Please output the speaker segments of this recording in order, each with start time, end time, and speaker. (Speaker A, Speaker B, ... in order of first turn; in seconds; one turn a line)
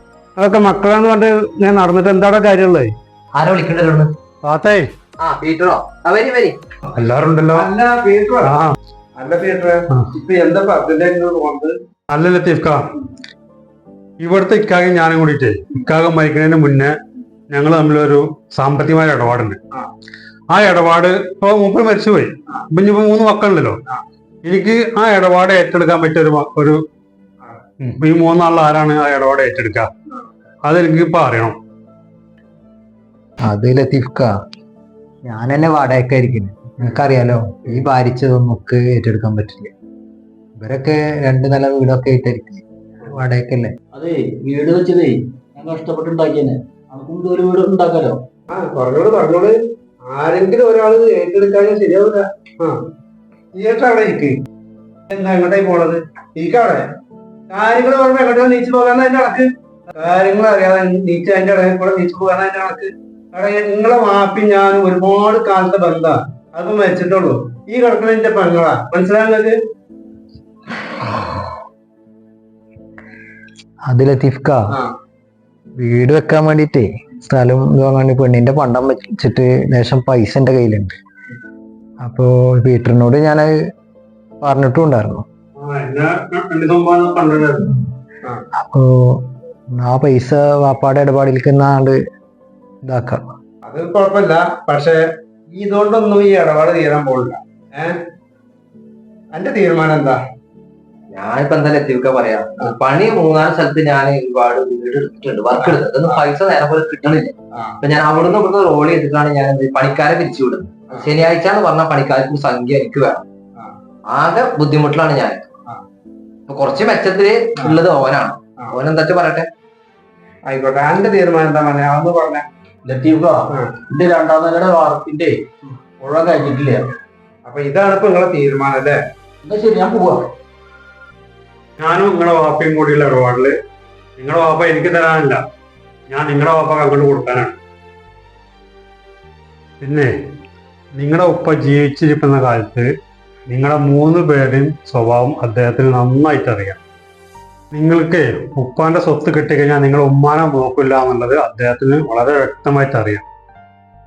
Speaker A: 0.4-2.9
Speaker B: 3.3-4.1
Speaker C: 4.4-4.9
Speaker B: 5.2-6.6
Speaker C: 6.9-7.6
Speaker A: 7.5-8.5
Speaker C: 8.4-8.7
Speaker A: 9.2-11.7
Speaker C: 12.1-12.8
Speaker C: 14.2-16.9
Speaker C: 17.5-19.6
Speaker C: 20.5-23.8
Speaker C: 24.4-26.8
Speaker A: 27.4-27.9
Speaker C: 27.9-29.9
Speaker C: 30.6-31.6
Speaker D: 33.4-34.3
Speaker D: 35.3-39.7
Speaker D: 40.6-43.7
Speaker E: 43.9-48.2
Speaker A: 48.5-52.8
Speaker A: 53.5-54.4
Speaker A: 55.1-56.9
Speaker A: 57.5-69.6
Speaker D: 73.8-74.7
Speaker D: 75.8-81.0
Speaker D: 82.0-83.5
Speaker D: 84.4-85.2
Speaker C: 85.6-87.7
Speaker D: 88.6-92.0
Speaker D: 92.8-93.3
Speaker A: 93.6-95.0
Speaker A: 95.5-98.0
Speaker A: 99.3-100.2
Speaker B: 101.1-113.2
Speaker A: 105.5-106.2
Speaker A: 107.5-107.8
Speaker B: 114.1-115.4
Speaker B: 116.5-119.5
Speaker A: 120.5-122.5
Speaker E: 122.8-126.9
Speaker A: 123.5-123.8
Speaker A: 127.4-129.0
Speaker E: 129.4-130.3
Speaker C: 131.8-133.5
Speaker C: 134.2-135.4
Speaker C: 136.1-137.6
Speaker C: 139.8-140.1
Speaker C: 140.9-142.9
Speaker C: 143.5-146.8
Speaker C: 147.7-153.2